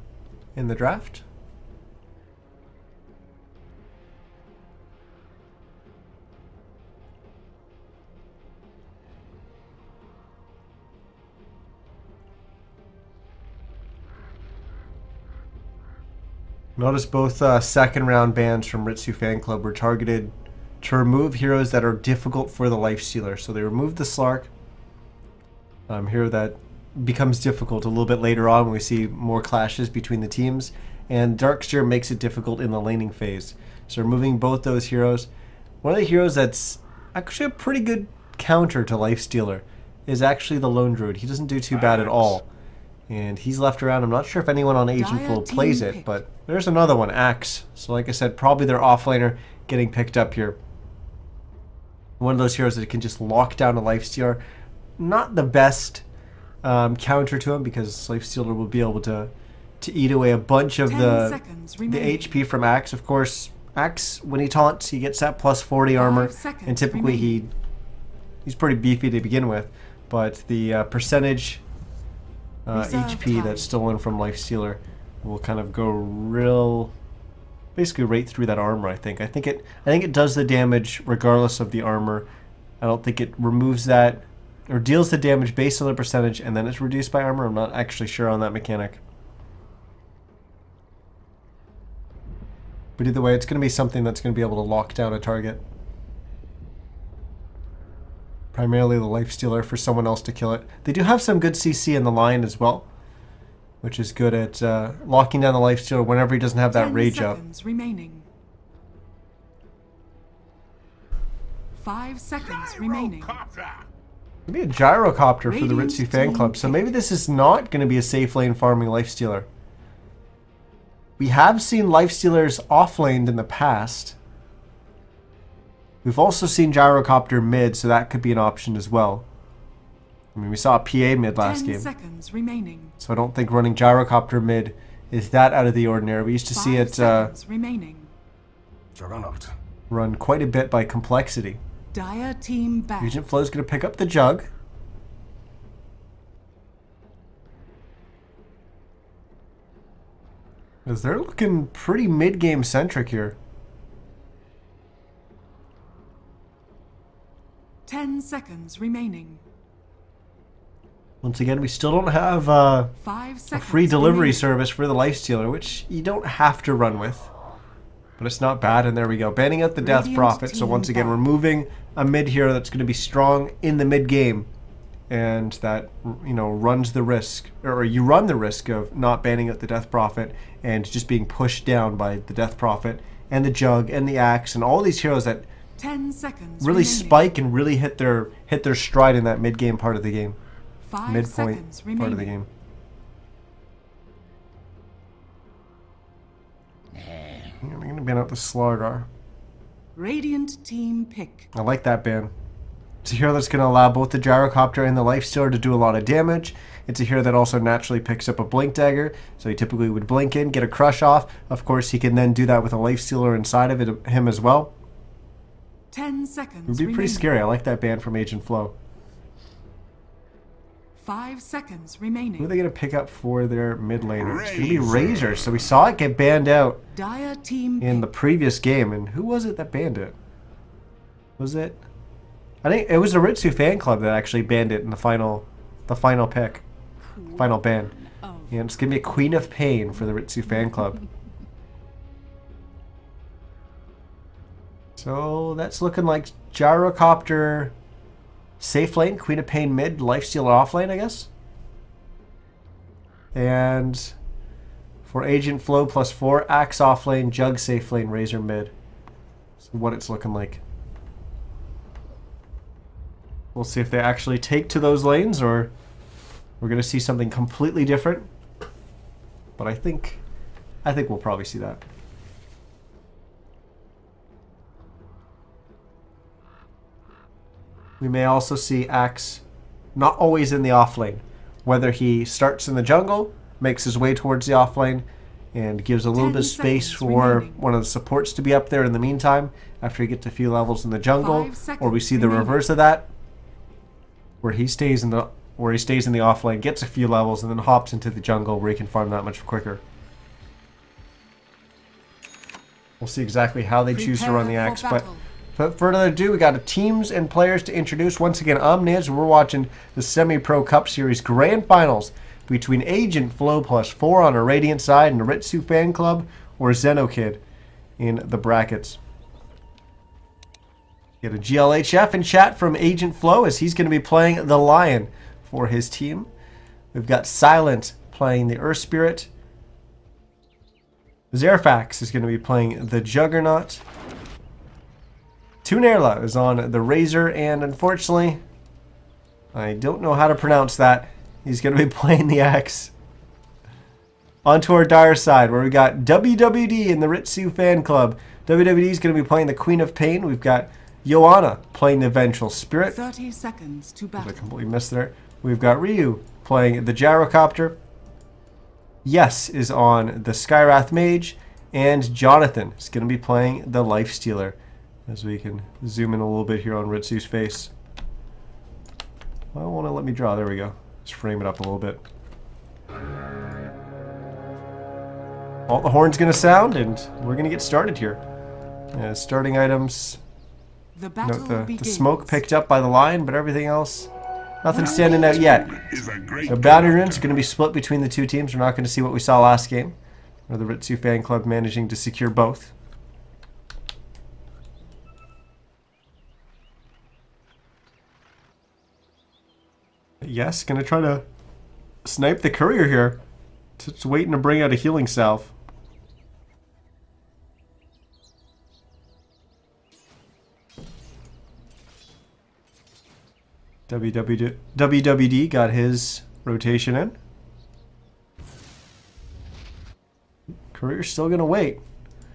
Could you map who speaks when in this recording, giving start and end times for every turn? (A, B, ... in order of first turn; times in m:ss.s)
0:00.6-0:01.2 A
0:16.8-0:24.5 A
0:25.9-0:35.3 A
0:35.8-0:42.4 A
0:41.9-0:42.3 B
0:43.1-0:50.6 A
0:45.0-0:46.2 C
0:52.2-0:54.4 A
0:55.0-0:56.0 A
0:56.6-1:07.5 A
1:00.9-1:02.4 C
1:05.9-1:07.4 C
1:08.4-1:11.6 A
1:12.6-1:16.9 A
1:12.7-1:13.7 C
1:17.8-1:22.3 A
1:22.8-1:29.0 A
1:33.0-1:35.6 A
1:38.5-1:42.9 A
1:43.8-1:47.4 A
1:46.7-1:48.3 C
1:51.7-1:53.4 C
1:54.5-1:59.5 A
1:55.4-1:56.9 C
2:01.2-2:04.2 A
2:06.0-2:09.2 A
2:10.4-2:11.9 A
2:11.4-2:13.0 C
2:13.0-2:17.3 A
2:16.5-2:18.1 C
2:18.9-2:19.5 B
2:19.9-2:21.6 A
2:21.9-2:23.2 C
2:23.0-2:24.5 A
2:30.9-2:33.4 A
2:37.9-2:39.4 C
2:41.2-2:42.9 A
2:43.0-2:44.5 C
2:43.5-2:47.3 A
2:48.2-2:54.5 A
2:49.8-2:51.3 C
2:55.1-3:05.5 A
3:05.8-3:07.4 C
3:06.6-3:10.4 A
3:10.8-3:12.3 C
3:11.1-3:12.5 A
3:17.6-3:19.1 A
3:20.0-3:21.5 C
3:21.5-3:22.3 A
3:23.0-3:34.7 A
3:35.9-3:37.3 C
3:36.7-3:38.7 A
3:41.0-3:42.6 C
3:42.4-3:46.8 A
3:44.2-3:45.6 B
3:46.9-3:48.1 C
3:47.8-3:50.2 A
3:51.4-3:51.8 A
3:52.6-3:56.6 A
3:57.3-3:57.9 A
3:58.5-4:01.0 A
4:05.0-4:07.7 A
4:08.6-4:11.3 A
4:13.3-4:14.1 A
4:15.0-4:18.7 A
4:19.6-4:20.6 A
4:23.5-4:25.7 A
4:26.6-4:28.3 A
4:29.6-4:30.2 A
4:30.8-4:31.8 A
4:38.0-4:39.4 A
4:40.0-4:53.1 A
4:46.1-4:47.6 C
4:51.2-4:52.6 C
4:54.4-4:59.8 A
5:03.0-5:17.4 A
5:03.9-5:05.2 C
5:18.0-5:19.0 A
5:21.2-5:26.3 A
5:26.9-5:29.3 A
5:31.3-5:33.8 A
5:35.6-5:38.4 A
5:39.5-5:42.9 A
5:44.4-5:53.0 A
5:52.9-5:54.5 C
5:54.2-5:57.8 A
5:59.0-6:07.7 A
6:09.5-6:12.0 A
6:15.7-6:18.2 A
6:18.9-6:20.2 A
6:21.0-6:22.4 C
6:21.2-6:24.1 A
6:24.6-6:25.7 A
6:24.7-6:25.2 C
6:24.9-6:27.4 B
6:26.5-6:30.0 A
6:30.5-6:32.7 A
6:40.2-6:41.2 A
6:42.0-6:43.2 A
6:43.8-6:45.5 A
6:53.9-6:57.2 A
7:00.7-7:01.8 A